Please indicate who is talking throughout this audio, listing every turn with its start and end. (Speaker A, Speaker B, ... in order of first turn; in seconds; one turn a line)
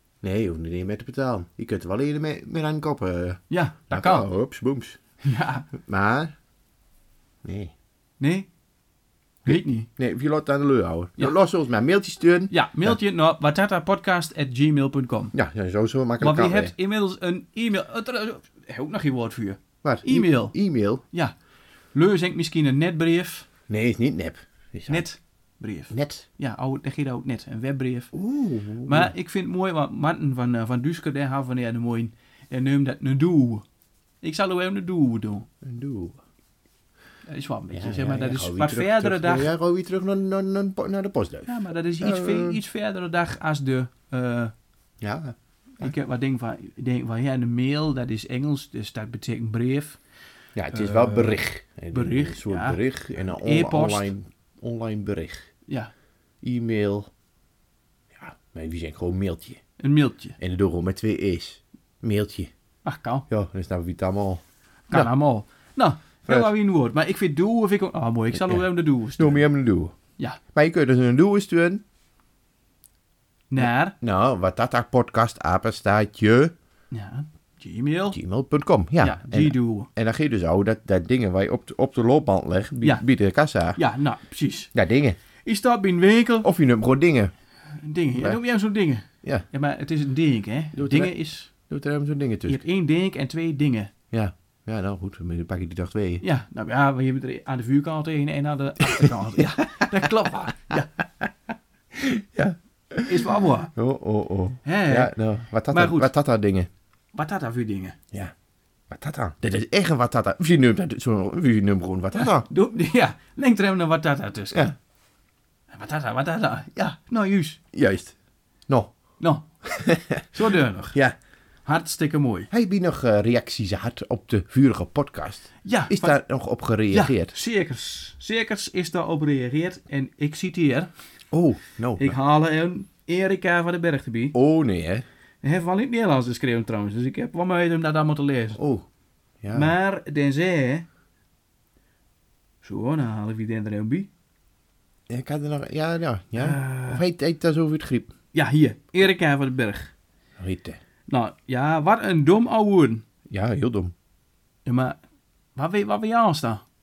Speaker A: 0.2-5.0
Speaker B: 3.5-4.3
Speaker B: 5.2-5.7
Speaker A: 5.8-6.3
Speaker A: 7.4-7.7
Speaker B: 8.2-8.5
Speaker B: 9.5-9.9
Speaker A: 9.5-13.0
Speaker B: 12.5-15.3
Speaker A: 15.3-16.7
Speaker B: 16.2-20.5
Speaker A: 19.8-21.0
Speaker B: 21.9-23.5
Speaker A: 23.7-25.1
Speaker B: 24.9-28.1
Speaker A: 25.9-26.3
Speaker A: 28.1-29.1
Speaker B: 28.9-33.6
Speaker B: 34.2-35.5
Speaker A: 35.6-36.2
Speaker B: 37.3-39.5
Speaker A: 37.7-42.6
Speaker B: 41.5-44.5
Speaker A: 45.0-45.9
Speaker B: 45.8-50.0
Speaker A: 50.6-55.5
Speaker B: 50.7-54.1
Speaker A: 56.4-57.1
Speaker A: 58.1-59.6
Speaker B: 59.8-60.4
Speaker A: 60.4-62.5
Speaker B: 62.8-63.3
Speaker A: 63.3-65.1
Speaker B: 64.9-69.4
Speaker A: 66.3-66.5
Speaker A: 68.3-68.7
Speaker A: 69.2-70.0
Speaker A: 70.5-71.8
Speaker B: 73.5-74.0
Speaker A: 73.6-76.5
Speaker B: 76.9-78.2
Speaker A: 78.1-83.8
Speaker B: 79.0-79.9
Speaker B: 83.8-84.7
Speaker A: 84.7-85.2
Speaker B: 85.5-86.5
Speaker A: 86.4-87.3
Speaker B: 87.8-91.5
Speaker A: 90.7-92.6
Speaker B: 92.5-93.9
Speaker A: 94.1-96.2
Speaker B: 96.2-100.9
Speaker A: 99.0-100.1
Speaker A: 101.9-106.7
Speaker B: 103.1-103.7
Speaker B: 104.7-105.1
Speaker B: 105.7-106.1
Speaker B: 107.2-108.0
Speaker A: 108.9-112.5
Speaker B: 112.2-114.7
Speaker B: 115.7-117.6
Speaker A: 117.7-118.2
Speaker B: 119.2-119.5
Speaker A: 119.7-120.2
Speaker B: 120.3-121.0
Speaker B: 121.7-122.5
Speaker A: 122.5-127.3
Speaker B: 125.7-126.2
Speaker B: 126.9-130.9
Speaker A: 131.3-132.2
Speaker B: 132.0-134.3
Speaker A: 134.3-135.1
Speaker B: 135.4-138.6
Speaker A: 138.6-138.9
Speaker A: 139.4-139.7
Speaker B: 139.5-140.9
Speaker B: 142.6-144.1
Speaker A: 145.1-148.1
Speaker B: 146.4-147.0
Speaker B: 148.3-149.9
Speaker A: 150.4-150.8
Speaker B: 151.1-153.1
Speaker A: 153.3-153.9
Speaker B: 154.7-155.0
Speaker B: 155.6-156.6